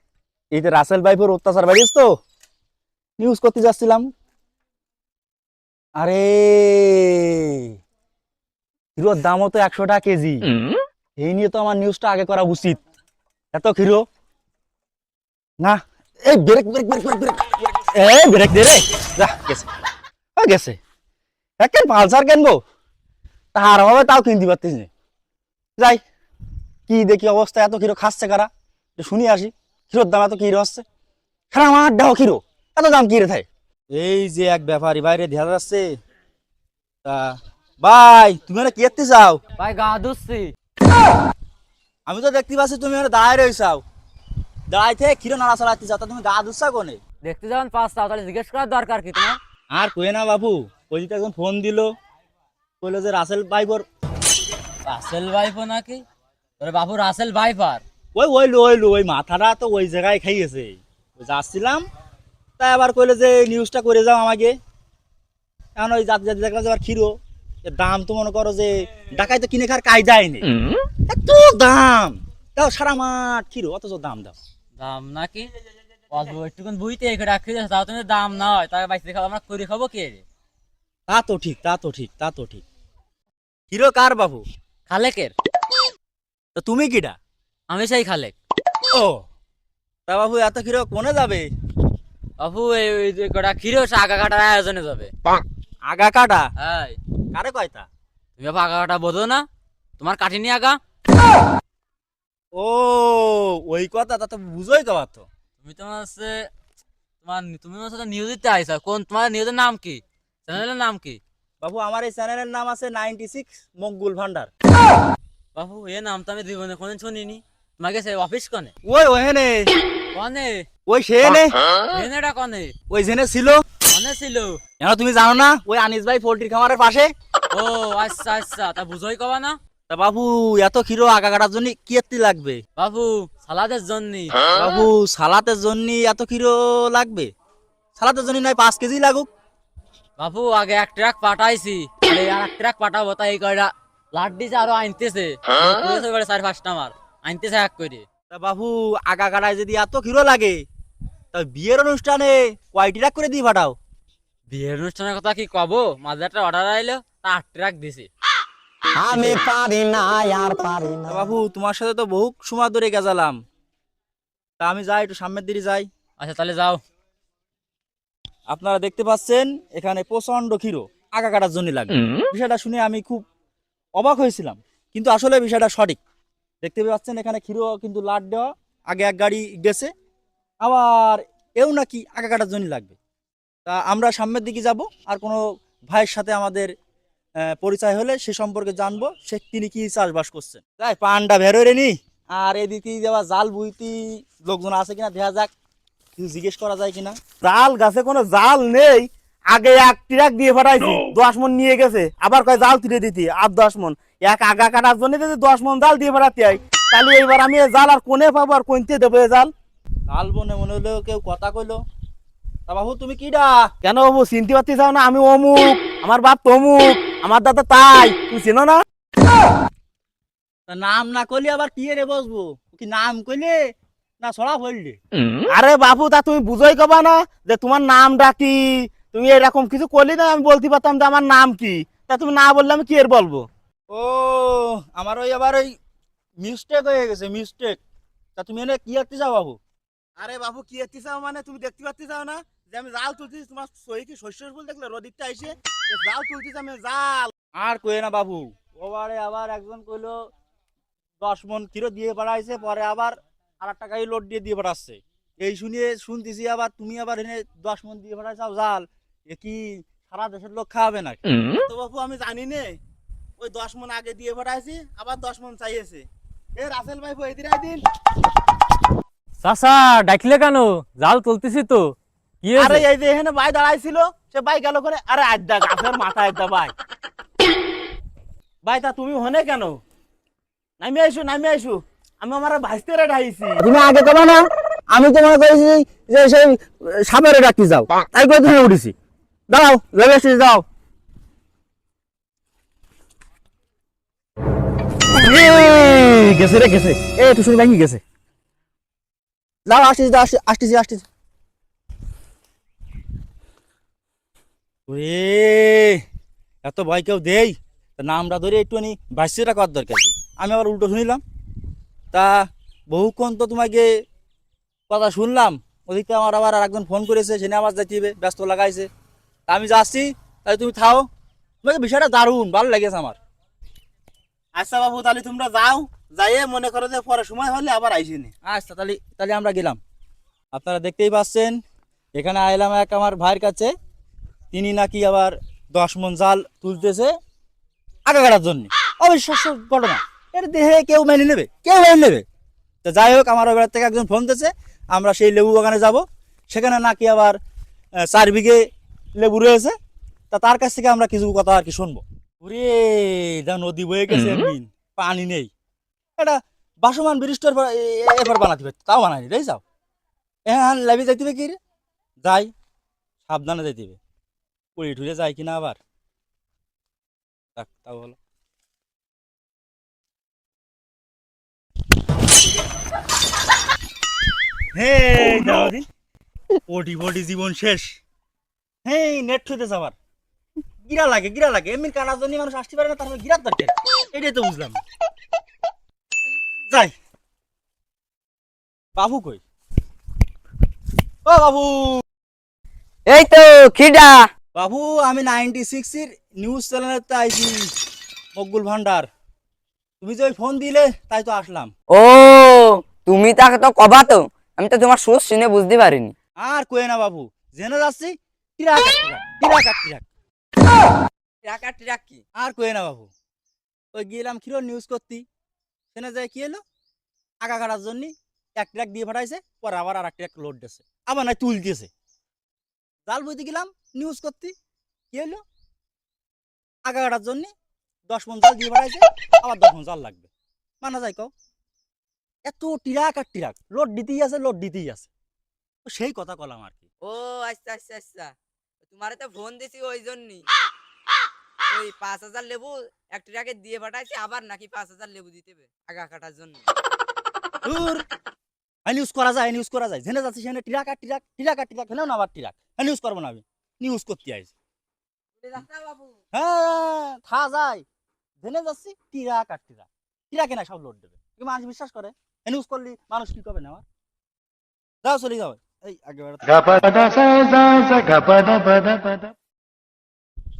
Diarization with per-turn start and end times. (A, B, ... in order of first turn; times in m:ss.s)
0:00.5-0:02.1 A
0:03.2-0:04.0 A
0:06.0-0:07.7 A
0:09.0-0:10.4 A
0:11.2-0:12.8 A
0:13.5-0:14.0 A
0:15.6-0:19.7 A
0:20.4-0:20.8 A
0:21.6-0:22.6 A
0:23.5-0:24.9 A
0:25.8-0:26.0 A
0:26.9-0:30.8 A
0:31.5-0:35.9 A
0:37.0-0:39.4 A
0:39.6-0:40.5 B
0:42.1-0:43.8 A
0:44.7-0:47.0 A
0:47.2-0:49.4 B
0:49.7-0:51.9 A
0:52.8-0:53.8 A
0:54.8-0:56.0 B
0:56.6-0:57.8 B
0:58.1-1:01.8 A
1:02.6-1:04.5 A
1:05.8-1:14.4 A
1:14.8-1:15.5 B
1:16.1-1:20.2 B
1:21.1-1:22.6 A
1:23.7-1:24.4 A
1:24.9-1:25.3 B
1:26.6-1:27.2 A
1:27.7-1:28.3 B
1:28.9-1:29.3 A
1:30.1-1:31.5 A
1:32.4-1:35.1 B
1:35.8-1:36.5 A
1:36.6-1:37.0 B
1:37.3-1:37.9 A
1:38.4-1:39.4 B
1:40.0-1:40.8 B
1:42.5-1:45.2 A
1:45.6-1:46.5 B
1:47.2-1:51.2 B
1:51.6-1:54.5 A
1:55.5-1:58.7 B
1:58.8-1:59.7 A
2:00.1-2:00.6 B
2:00.8-2:01.6 A
2:01.9-2:02.7 B
2:02.9-2:03.6 A
2:03.9-2:04.6 B
2:04.8-2:07.1 A
2:07.5-2:09.6 B
2:09.9-2:12.6 A
2:12.8-2:14.4 B
2:14.5-2:17.3 A
2:18.0-2:19.3 A
2:20.2-2:28.0 B
2:28.3-2:30.6 A
2:31.3-2:33.8 A
2:34.5-2:38.1 B
2:39.0-2:41.1 C
2:39.1-2:39.5 B
2:39.1-2:39.5 A
2:41.0-2:43.4 A
2:44.6-2:45.9 A
2:46.2-2:46.8 B
2:48.5-2:53.2 A
2:53.9-2:56.0 A
2:56.6-2:59.9 A
3:00.6-3:03.0 A
3:03.6-3:06.7 A
3:07.4-3:15.5 A
3:16.2-3:17.2 A
3:17.4-3:29.5 D
3:30.1-3:31.8 A
3:32.7-3:33.7 A
3:33.8-3:38.8 D
3:40.7-3:45.0 A
3:45.5-3:53.5 D
3:53.9-3:55.7 A
3:56.4-3:57.8 A
3:58.4-3:59.6 A
4:00.2-4:07.3 D
4:07.6-4:10.1 A
4:11.2-4:21.2 A
4:21.7-4:22.8 D
4:23.4-4:27.8 D
4:29.4-4:32.8 B
4:32.6-4:36.7 D
4:38.6-4:39.8 D
4:40.8-4:43.6 D
4:43.6-4:48.9 A
4:49.5-4:50.6 A
4:55.1-4:58.0 A
4:59.7-5:01.0 A
5:04.9-5:06.0 A
5:06.6-5:11.2 A
5:12.1-5:14.0 A
5:14.9-5:18.9 A
5:19.5-5:21.0 A
5:21.6-5:23.2 A
5:24.6-5:28.3 D
5:28.4-5:29.8 A
5:30.5-5:31.6 A
5:32.1-5:33.7 A
5:34.5-5:37.1 A
5:38.1-5:42.2 A
5:42.8-5:47.4 A
5:48.0-5:48.6 A
5:49.2-5:49.7 A
5:50.3-5:55.5 A
5:56.2-5:59.6 A
6:00.5-6:01.6 A
6:02.2-6:02.5 A
6:03.2-6:04.0 A
6:04.8-6:05.8 A
6:07.6-6:08.2 A
6:14.7-6:15.8 A
6:16.7-6:18.0 A
6:18.8-6:19.9 A
6:20.8-6:24.8 A
6:29.0-6:29.4 A
6:31.2-6:32.0 A
6:33.0-6:34.3 E
6:34.5-6:37.7 A
6:38.3-6:39.1 A
6:40.0-6:41.7 A
6:41.9-6:46.1 E
6:46.4-6:50.0 A
6:51.4-6:52.2 E
6:52.4-6:53.1 A
6:53.9-6:55.2 A
6:55.9-6:56.6 A
6:57.4-7:01.9 A
7:03.1-7:04.5 A
7:05.1-7:05.4 A
7:06.8-7:07.5 A
7:08.1-7:10.3 A
7:10.8-7:11.3 A
7:12.4-7:15.1 A
7:15.8-7:16.9 A
7:17.0-7:18.3 E
7:18.8-7:20.4 E
7:21.7-7:26.6 E
7:27.6-7:28.0 A
7:28.8-7:34.5 A
7:35.4-7:36.2 E
7:36.3-7:37.8 A
7:38.4-7:43.8 A
7:45.0-7:48.3 A
7:48.2-7:49.2 C